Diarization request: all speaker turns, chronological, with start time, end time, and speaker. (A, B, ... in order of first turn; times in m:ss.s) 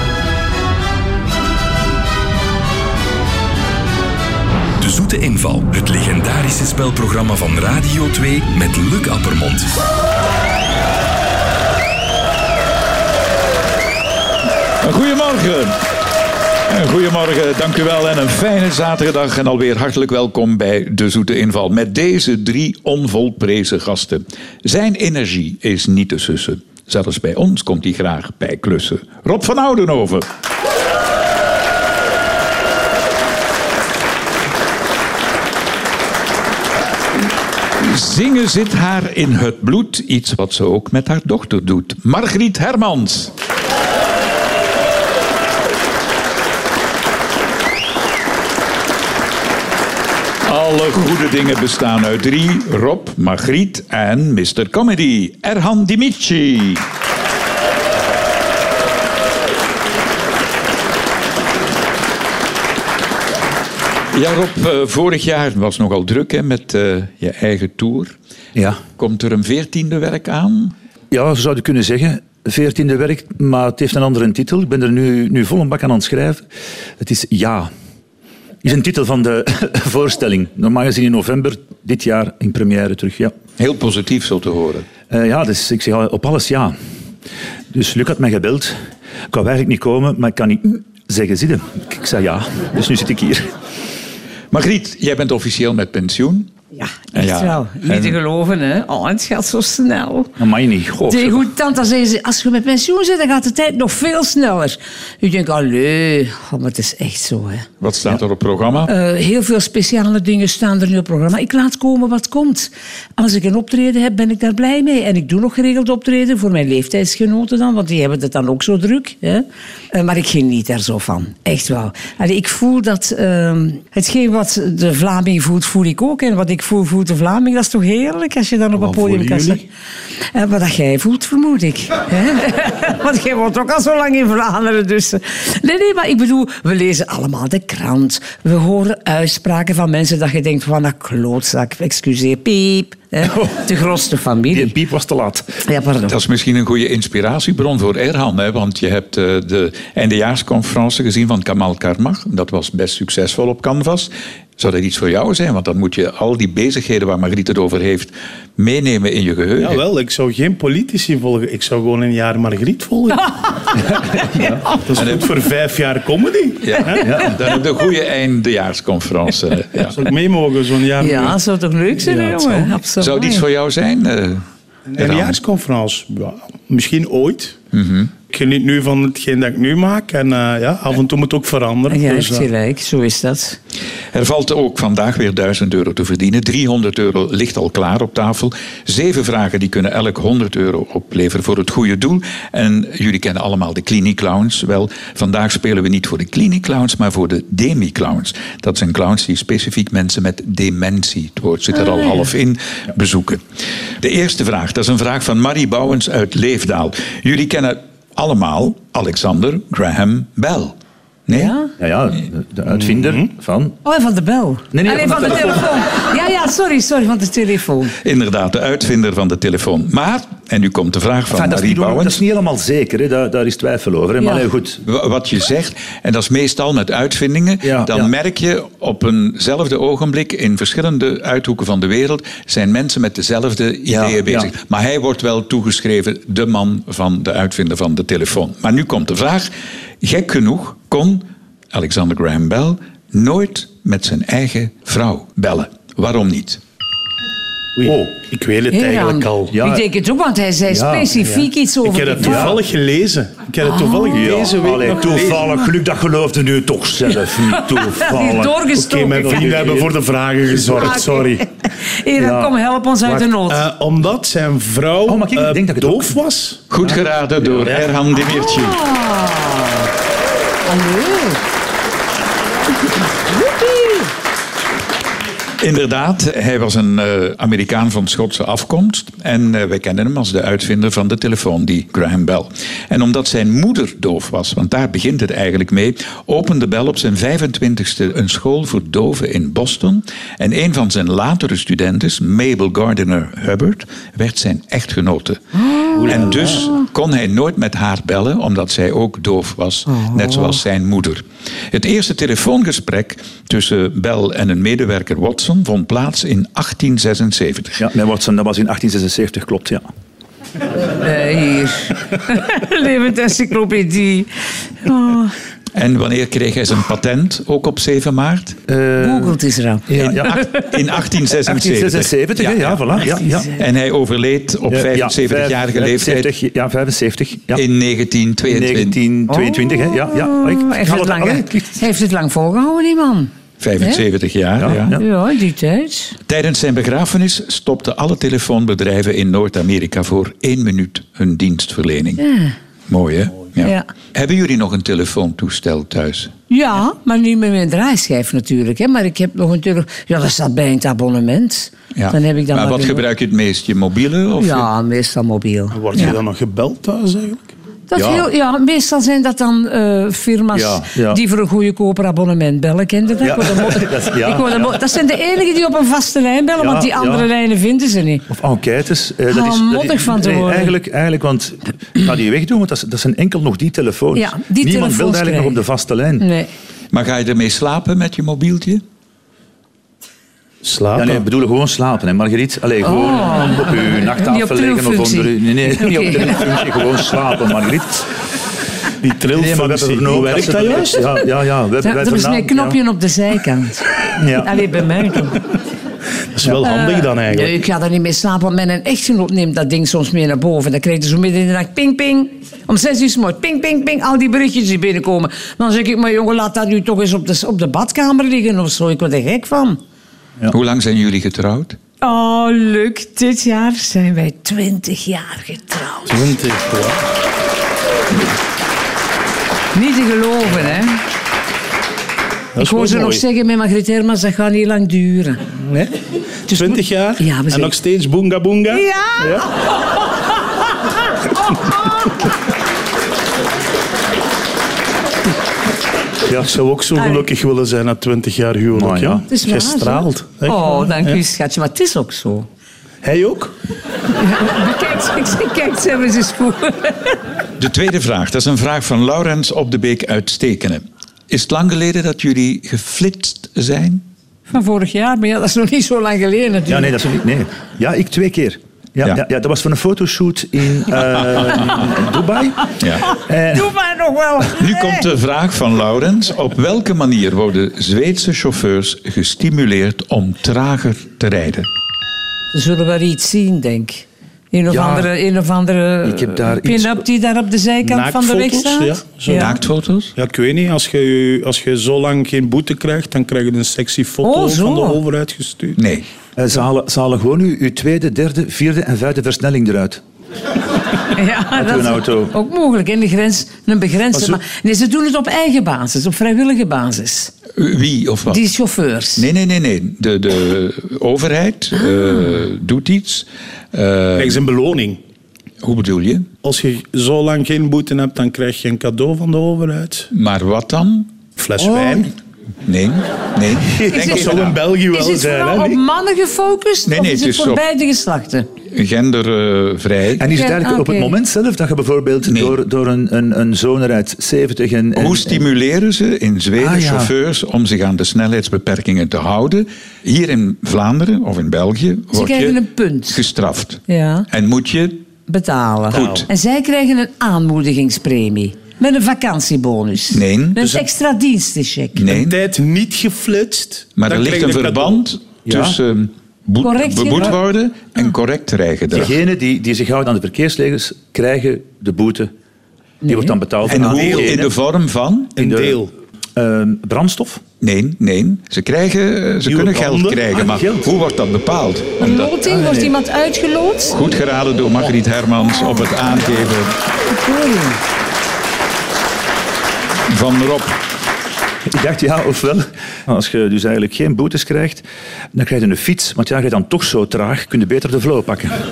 0:04.8-0:09.8 A
0:14.8-0:15.8 B
0:16.7-0:30.2 B
0:37.8-0:43.3 B
0:50.4-0:56.8 B
1:04.1-1:08.2 B
1:08.5-1:08.8 C
1:09.0-1:10.7 B
1:11.1-1:16.4 C
1:17.0-1:17.7 C
1:18.6-1:23.3 C
1:23.6-1:24.8 B
1:25.1-1:26.7 C
1:27.7-1:28.7 C
1:29.3-1:33.5 C
1:34.5-1:36.5 B
1:36.7-1:40.3 D
1:37.1-1:38.2 B
1:40.4-1:41.5 C
1:41.1-1:47.7 D
1:47.8-1:48.9 B
1:48.9-2:09.6 D
2:08.8-2:09.6 E
2:10.3-2:24.7 D
2:23.2-2:23.6 C
2:24.5-2:25.4 C
2:25.6-2:26.1 D
2:26.0-2:39.8 B
2:39.6-2:43.3 E
2:43.1-2:43.7 D
2:43.9-2:44.6 C
2:44.3-2:44.8 D
2:44.8-2:47.1 E
2:45.0-2:45.3 B
2:46.6-2:50.1 B
2:47.0-2:47.3 C
2:49.9-2:51.4 E
2:51.0-2:53.4 D
2:52.0-2:52.8 E
2:53.0-2:54.4 B
2:54.9-2:57.6 E
2:55.0-2:55.4 B
2:57.7-2:58.1 B
2:58.3-3:02.5 E
3:01.9-3:03.6 D
3:04.1-3:23.4 B
3:21.8-3:22.2 D
3:24.0-3:31.5 B
3:31.3-3:31.7 D
3:31.8-3:33.8 C
3:32.7-3:33.3 E
3:33.8-3:37.9 D
3:34.7-3:35.7 C
3:38.0-3:42.2 B
3:41.3-3:44.8 C
3:44.2-3:44.4 D
3:44.8-3:59.5 B
3:47.6-3:48.1 C
3:53.9-3:54.5 C
4:00.0-4:06.6 B
4:07.8-4:09.6 E
4:07.8-4:08.1 C
4:08.7-4:12.6 D
4:09.5-4:09.8 C
4:10.7-4:11.1 C
4:11.2-4:15.6 E
4:12.2-4:12.6 C
4:13.6-4:14.3 D
4:14.1-4:18.6 C
4:15.1-4:15.4 D
4:17.3-4:19.7 D
4:18.7-4:21.4 E
4:19.2-4:19.9 C
4:20.7-4:23.6 D
4:22.2-4:22.5 C
4:23.4-4:26.6 E
4:25.1-4:26.1 C
4:26.7-4:28.8 B
4:26.8-4:27.6 C
4:28.2-4:29.9 D
4:30.7-4:31.4 D
4:33.3-4:34.1 D
4:35.6-4:55.4 B
4:55.5-4:56.2 D
4:56.0-4:56.7 E
4:56.1-5:07.8 B
4:59.9-5:00.6 D
5:07.8-5:09.9 C
5:11.0-5:15.3 D
5:15.7-5:18.6 B
5:18.7-5:19.4 C
5:19.0-5:19.9 D
5:19.9-5:20.6 C
5:19.9-5:26.3 B
5:21.4-5:23.5 C
5:24.7-5:27.6 C
5:27.5-5:29.0 B
5:28.5-5:31.8 C
5:29.3-5:34.0 D
5:33.6-5:35.0 B
5:34.6-5:35.0 C
5:35.0-5:36.2 D
5:36.3-5:42.2 B
5:42.2-5:42.5 D
5:42.9-5:46.3 B
5:43.6-5:43.9 D
5:46.5-5:53.0 D
5:51.9-5:54.7 B
5:54.4-5:55.8 D
5:55.7-5:57.5 E
5:57.9-6:08.3 D
5:57.9-5:58.2 C
6:00.5-6:01.2 C
6:03.2-6:04.7 C
6:06.6-6:07.3 C
6:08.3-6:16.3 C
6:09.3-6:10.7 D
6:14.1-6:15.6 D
6:16.2-6:16.5 D
6:16.9-6:18.8 B
6:20.6-6:21.2 E
6:21.0-6:28.1 C
6:22.8-6:26.7 D
6:29.0-6:31.2 E
6:29.3-6:32.8 C
6:31.8-6:35.4 D
6:34.1-6:34.5 C
6:36.3-6:37.6 E
6:36.6-6:49.8 D
6:50.5-6:51.8 B
6:52.0-6:56.3 D
6:56.1-6:57.0 E
6:59.7-7:01.0 D
7:02.6-7:03.2 E
7:02.6-7:05.4 D
7:05.6-7:05.9 E
7:06.5-7:08.8 E
7:06.5-7:07.7 D
7:08.7-7:09.4 D
7:16.3-7:16.5 C
7:16.4-7:21.2 E
7:17.0-7:17.2 D
7:18.7-7:19.2 C
7:19.3-7:22.5 D
7:23.0-7:23.5 E
7:24.1-7:27.2 D
7:27.6-7:34.0 B
7:34.5-7:37.0 D
7:36.7-7:42.7 C
7:42.8-7:43.0 B
7:43.2-7:45.1 D
7:43.3-7:43.7 C
7:44.6-7:51.7 B
7:52.5-7:59.5 D
7:54.7-7:55.1 C
7:56.0-7:57.0 C
7:57.8-7:59.6 E
7:59.3-8:00.1 B
8:00.2-8:05.8 E
8:04.2-8:05.0 D
8:05.8-8:06.1 B
8:06.4-8:10.0 C
8:11.1-8:17.3 D
8:11.5-8:12.3 C
8:14.1-8:14.4 E
8:17.6-8:18.4 B
8:18.3-8:19.2 D
8:19.2-8:24.4 B
8:24.2-8:25.0 E
8:25.6-8:26.3 B
8:26.4-8:30.1 E
8:30.1-8:31.1 B
8:31.4-8:32.1 E
8:31.6-8:31.9 C
8:32.6-8:34.6 B
8:33.9-8:34.2 D
8:33.9-8:35.8 E
8:34.9-8:38.5 D
8:36.8-8:37.6 B
8:38.7-8:40.3 B
8:40.2-8:45.4 C
8:40.3-8:41.1 D
8:42.2-8:42.6 B
8:45.0-8:55.0 B
8:46.6-8:47.1 C
8:52.1-8:53.2 D
8:53.9-8:54.3 D
8:55.3-9:02.0 D
8:55.9-8:56.3 B
8:55.9-8:56.2 E
9:00.1-9:00.6 B
9:01.9-9:02.4 B
9:02.1-9:05.0 E
9:04.0-9:09.2 B
9:05.5-9:05.8 C
9:06.6-9:07.3 D
9:08.9-9:12.3 C
9:13.0-9:13.4 D
9:13.1-9:14.5 C
9:13.7-9:14.4 E
9:13.7-9:15.4 B
9:15.4-9:15.9 E
9:15.4-9:15.8 C
9:16.4-9:17.4 C
9:17.6-9:22.3 B
9:19.4-9:20.2 E
9:20.3-9:20.9 C
9:22.0-9:24.0 D
9:22.5-9:22.9 C
9:23.9-9:26.7 B
9:27.1-9:27.8 D
9:30.1-9:30.8 B
9:31.7-9:38.6 C